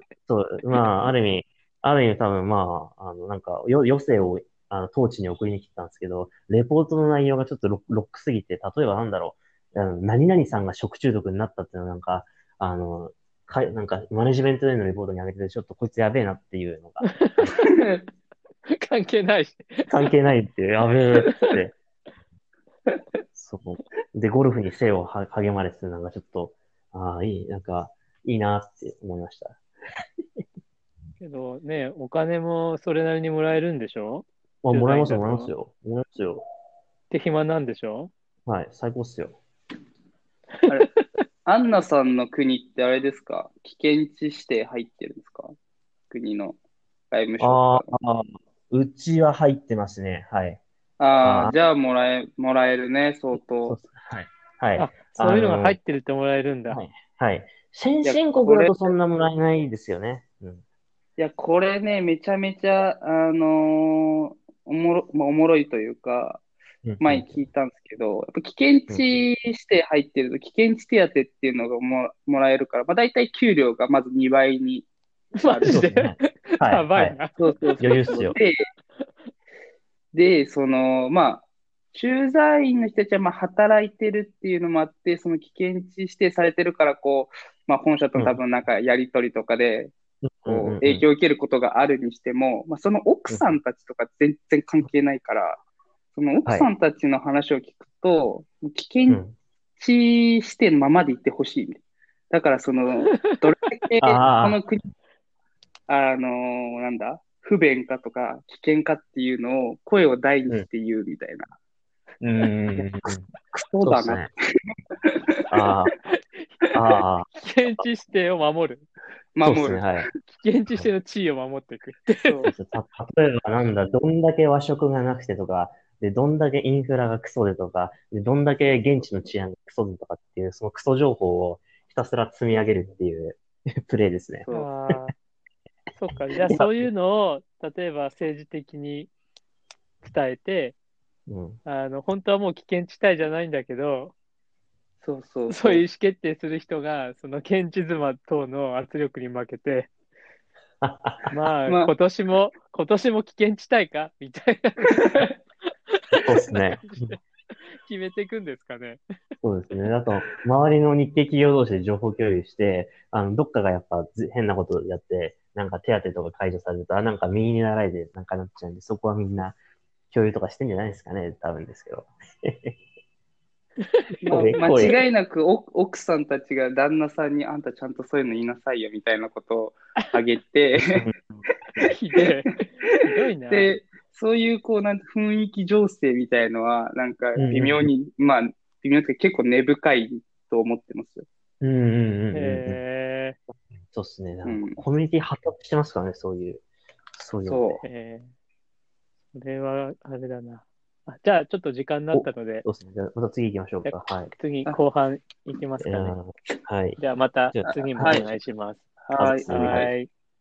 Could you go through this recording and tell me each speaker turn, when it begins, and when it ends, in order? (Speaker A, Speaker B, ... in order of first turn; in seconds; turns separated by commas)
Speaker A: 0.3-17.3, Speaker B: 0.7-1.0, Speaker B: 17.0-17.8, Speaker C: 17.6-17.9, Speaker B: 18.7-20.1, Speaker A: 19.9-21.7, Speaker B: 21.3-21.5, Speaker A: 23.4-29.6, Speaker B: 31.2-35.5, Speaker A: 34.6-36.4, Speaker B: 37.1-38.1, Speaker A: 38.5-39.4, Speaker C: 41.5-45.5, Speaker C: 46.1-46.6, Speaker C: 47.1-47.9, Speaker A: 47.4-50.6, Speaker C: 51.0-53.8, Speaker A: 51.2-51.5, Speaker A: 53.6-55.8, Speaker B: 54.8-56.8, Speaker A: 56.7-60.6, Speaker C: 58.0-58.9, Speaker C: 61.2-66.4, Speaker A: 66.8-67.4, Speaker C: 67.0-75.8, Speaker A: 68.9-69.2, Speaker B: 75.4-77.7, Speaker A: 75.7-77.2, Speaker C: 77.4-78.6, Speaker A: 77.8-78.4, Speaker C: 80.1-89.9, Speaker A: 90.2-91.0, Speaker C: 90.5-95.6, Speaker C: 96.2-99.2, Speaker A: 99.1-99.4, Speaker C: 99.8-104.8, Speaker B: 103.1-103.4, Speaker A: 104.0-104.6, Speaker C: 105.9-111.5, Speaker A: 112.2-113.3, Speaker C: 113.5-114.3, Speaker A: 113.8-114.3, Speaker A: 115.5-115.9, Speaker B: 116.0-116.5, Speaker A: 116.7-117.8, Speaker B: 117.3-118.9, Speaker C: 119.4-120.1, Speaker A: 119.4-120.1, Speaker B: 120.3-122.5, Speaker C: 122.2-122.5, Speaker A: 122.5-134.9, Speaker C: 134.4-134.7, Speaker B: 134.5-135.1, Speaker B: 135.9-139.1, Speaker A: 136.5-136.9, Speaker B: 140.0-140.8, Speaker A: 141.3-141.6, Speaker B: 141.7-144.1, Speaker C: 145.0-145.8, Speaker B: 145.5-149.9, Speaker A: 150.8-151.3, Speaker B: 151.3-155.3, Speaker C: 151.7-151.9, Speaker B: 156.0-157.2, Speaker A: 156.2-157.2, Speaker B: 157.8-159.0, Speaker A: 159.4-169.6, Speaker A: 170.1-172.8, Speaker B: 173.9-174.9, Speaker C: 174.2-181.0, Speaker A: 174.3-175.0, Speaker A: 180.8-181.4, Speaker B: 181.8-183.8, Speaker C: 183.5-191.3, Speaker A: 187.4-187.9, Speaker A: 191.6-192.8, Speaker B: 192.3-193.4, Speaker A: 193.9-196.6, Speaker C: 194.4-194.8, Speaker A: 197.2-197.8, Speaker C: 197.4-197.8, Speaker B: 197.8-198.3, Speaker B: 199.3-202.7, Speaker A: 202.1-204.3, Speaker B: 203.8-206.2, Speaker A: 205.8-207.0, Speaker B: 207.0-208.8, Speaker A: 207.5-208.4, Speaker C: 207.7-208.3, Speaker C: 209.1-209.9, Speaker A: 209.2-209.9, Speaker B: 209.4-210.1